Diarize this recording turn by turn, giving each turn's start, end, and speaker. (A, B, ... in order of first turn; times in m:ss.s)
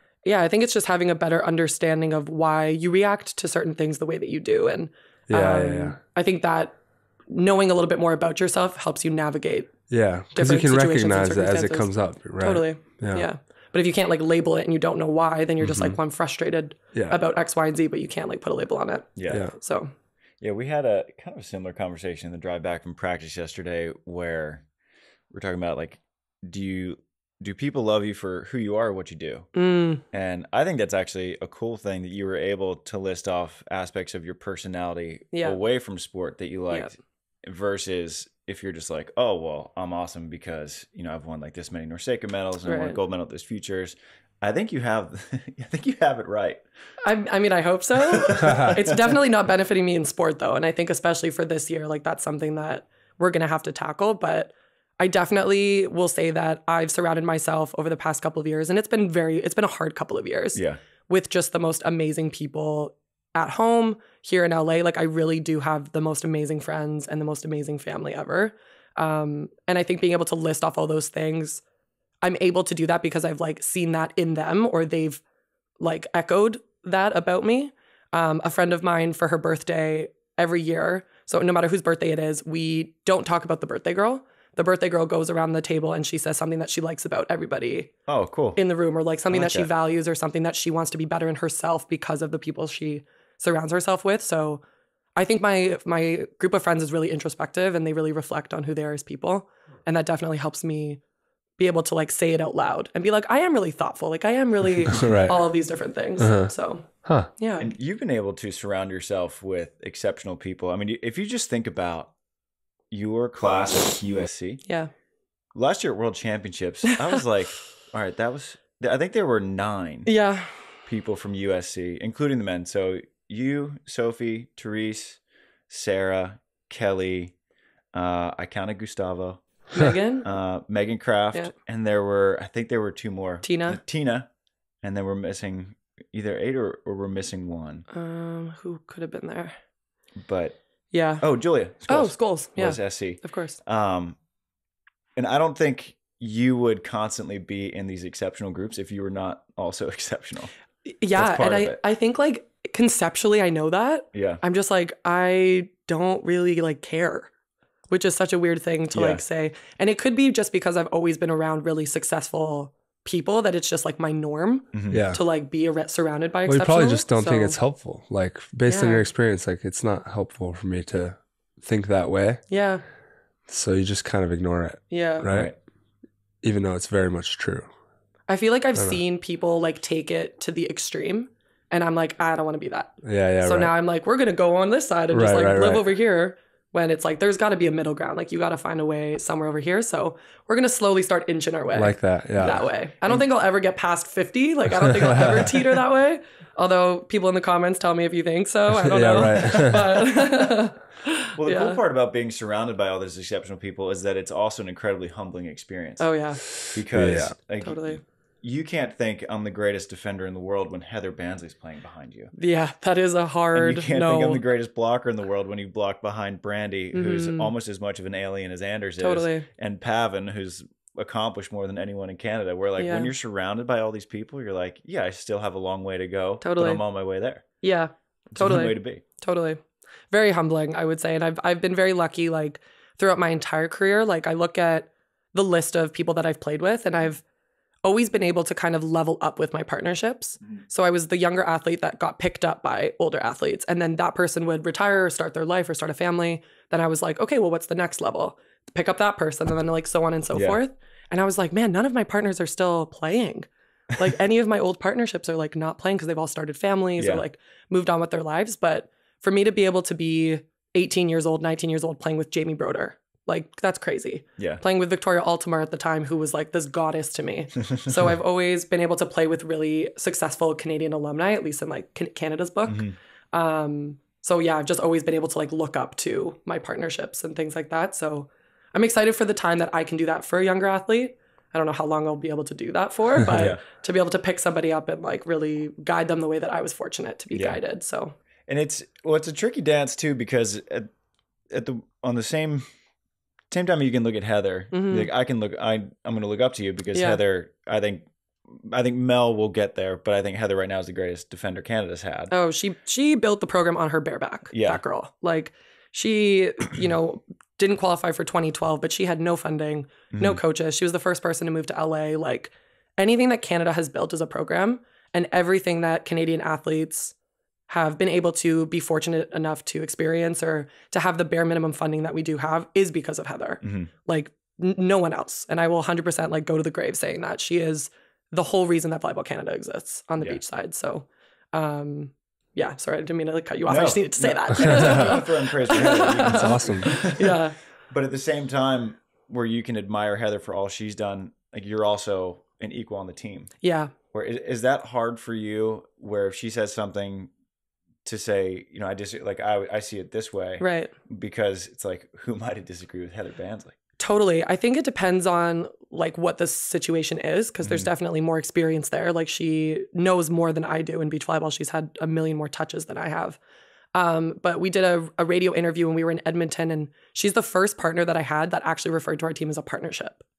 0:00.2-0:06.8 A
0:05.3-0:06.0 B
0:07.3-0:09.7 A
0:09.9-0:13.3 B
0:10.3-0:19.9 A
0:15.6-0:16.0 B
0:16.9-0:17.2 B
0:19.2-0:19.5 C
0:20.4-0:24.6 C
0:25.3-0:29.5 C
0:29.6-0:30.0 A
0:30.1-0:46.6 C
0:35.3-0:35.6 A
0:42.6-0:43.0 A
0:47.0-1:11.6 A
0:48.1-0:49.1 C
1:12.2-1:15.2 A
1:15.8-1:27.9 A
1:28.1-1:28.6 C
1:28.6-1:34.6 A
1:29.3-1:29.7 C
1:35.2-1:41.0 A
1:41.6-1:47.7 A
1:44.9-1:45.4 B
1:46.2-1:46.5 B
1:47.0-1:47.3 B
1:47.6-1:52.1 C
1:52.9-1:54.6 C
1:54.7-1:54.9 A
1:55.5-2:00.1 C
1:56.9-1:57.2 A
2:00.1-2:00.8 A
2:00.9-2:07.3 C
2:07.9-2:09.4 C
2:09.7-2:10.3 A
2:10.2-2:14.3 C
2:13.4-2:13.8 A
2:14.8-2:17.9 C
2:17.9-2:19.5 A
2:20.2-2:20.6 C
2:20.9-2:21.2 A
2:21.2-2:24.2 C
2:21.9-2:23.6 A
2:25.2-2:30.5 C
2:31.0-2:37.3 A
2:31.2-2:31.8 C
2:34.1-2:34.4 C
2:37.9-2:47.6 A
2:38.9-2:39.2 C
2:44.7-2:45.0 C
2:44.9-2:45.2 B
2:46.5-2:52.4 B
2:48.7-2:49.1 A
2:52.5-2:52.8 A
2:53.5-2:55.5 B
2:54.9-2:55.3 A
2:56.4-2:57.7 B
2:58.3-3:21.8 A
3:03.0-3:03.7 B
3:05.1-3:05.9 B
3:11.8-3:12.6 B
3:14.8-3:15.5 B
3:18.7-3:20.0 B
3:21.3-3:32.3 C
3:26.0-3:26.5 A
3:26.9-3:27.4 B
3:27.6-3:28.0 A
3:32.3-3:34.4 A
3:33.6-3:47.4 C
3:36.9-3:37.5 A
3:39.0-3:39.5 A
3:42.8-3:43.1 A
3:46.4-3:46.8 A
3:47.6-3:57.2 A
3:48.4-3:49.0 C
3:57.8-4:48.2 A
4:10.3-4:10.6 C
4:32.7-4:33.0 C
4:43.3-4:43.6 C
4:47.3-4:47.6 C
4:48.5-4:50.9 C
4:51.5-4:52.7 C
4:53.5-5:02.3 C
4:54.7-4:55.1 A
4:56.9-4:57.2 A
5:02.3-5:17.1 A
5:04.5-5:04.8 C
5:10.1-5:10.4 C
5:17.7-5:37.6 A
5:23.6-5:23.9 C
5:33.7-5:37.4 C
5:36.2-5:36.9 B
5:37.9-5:43.5 C
5:43.6-5:43.9 A
5:44.1-5:47.3 C
5:48.0-5:53.8 C
5:50.6-5:50.9 A
5:54.0-6:03.4 A
5:57.6-5:57.9 C
6:03.9-6:10.2 A